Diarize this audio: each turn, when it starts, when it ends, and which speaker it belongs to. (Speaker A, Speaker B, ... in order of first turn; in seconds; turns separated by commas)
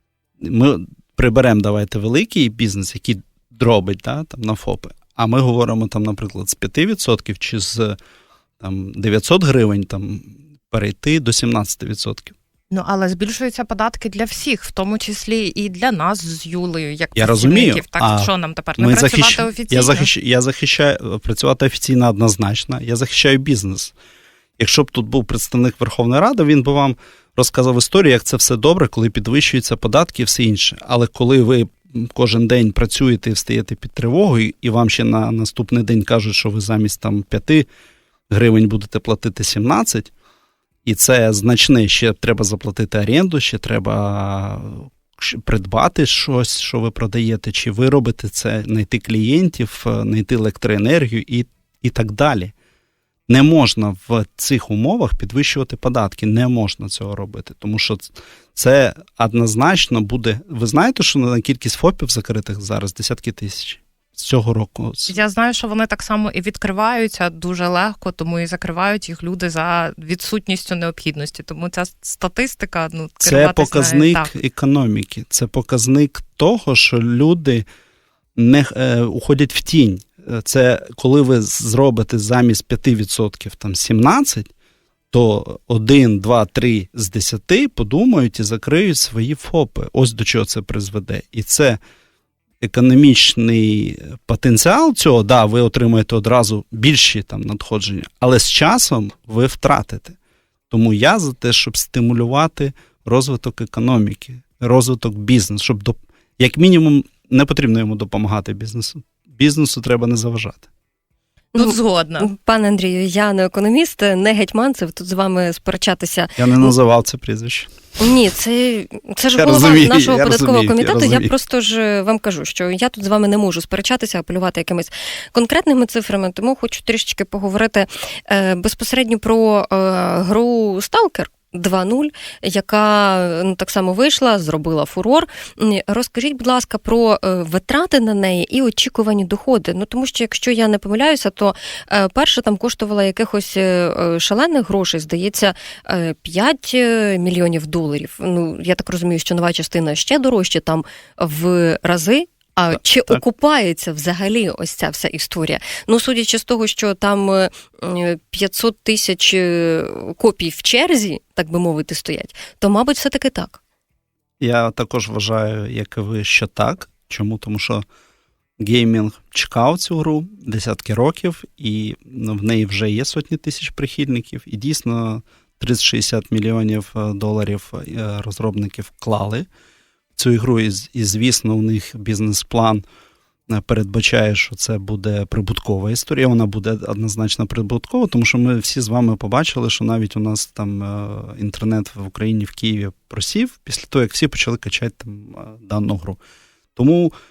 Speaker A: 0.4-8.0, Speaker A: 8.6-12.3, Speaker B: 12.7-20.1, Speaker A: 17.1-23.9, Speaker A: 24.6-37.7, Speaker A: 38.3-40.1, Speaker A: 40.8-52.5, Speaker A: 53.3-65.2, Speaker B: 65.1-74.3, Speaker A: 73.2-77.6, Speaker A: 78.3-84.5, Speaker A: 85.1-91.8, Speaker A: 92.6-100.2, Speaker A: 100.7-110.7, Speaker B: 111.5-112.3, Speaker C: 111.6-116.7, Speaker A: 116.4-117.7, Speaker C: 118.0-163.6, Speaker A: 119.3-121.3, Speaker A: 164.4-167.8, Speaker A: 168.6-179.5, Speaker A: 180.2-182.8, Speaker A: 183.5-196.2, Speaker A: 196.8-197.1